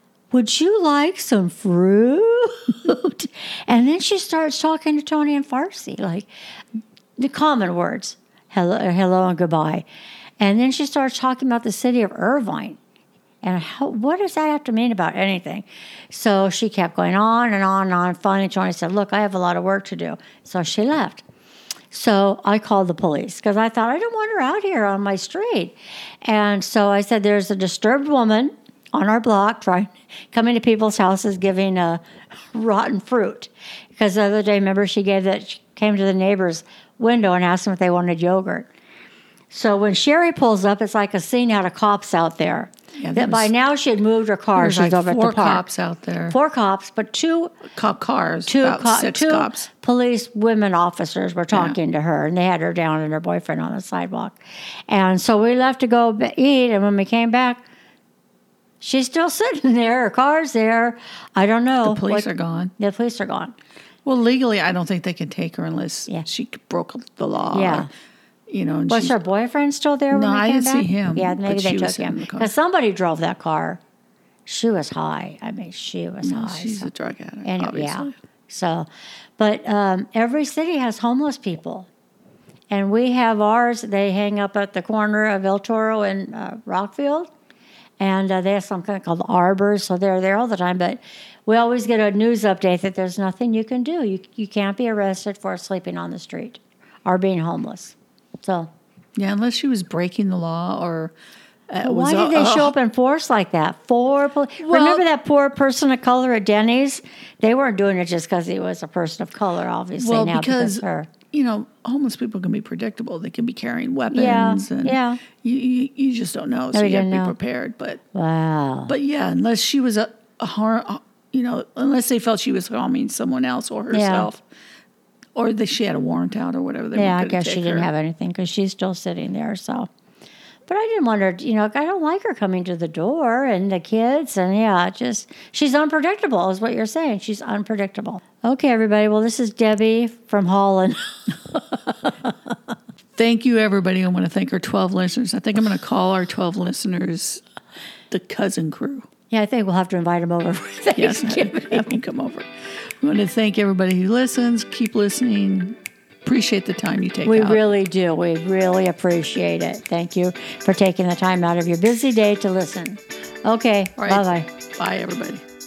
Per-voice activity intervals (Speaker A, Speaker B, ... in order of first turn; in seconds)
Speaker A: 0.3-6.3, 7.2-9.8, 10.4-12.8, 13.4-21.2, 21.9-32.0, 32.5-38.7, 39.5-45.6, 46.3-47.6, 48.5-57.6, 58.8-63.5, 67.5-67.9, 68.9-73.8, 74.5-76.9, 77.4-78.9, 79.4-81.9, 82.7-87.3, 88.0-98.7, 101.8-111.1, 114.1-115.2, 116.7-117.3, 118.1-118.9, 123.9-124.3, 126.9-129.9, 130.7-141.2, 149.3-152.0, 157.2-164.5
Speaker B: 43.0-43.5, 44.5-46.4, 47.7-49.7, 51.5-51.8, 61.8-62.7, 64.0-67.9, 68.5-69.2, 70.1-72.5, 76.2-78.1, 99.2-101.1, 101.7-102.7, 104.6-105.0, 110.0-118.0, 118.9-124.4, 125.3-127.9, 143.2-147.4, 148.1-149.1, 150.9-157.6, 164.0-165.4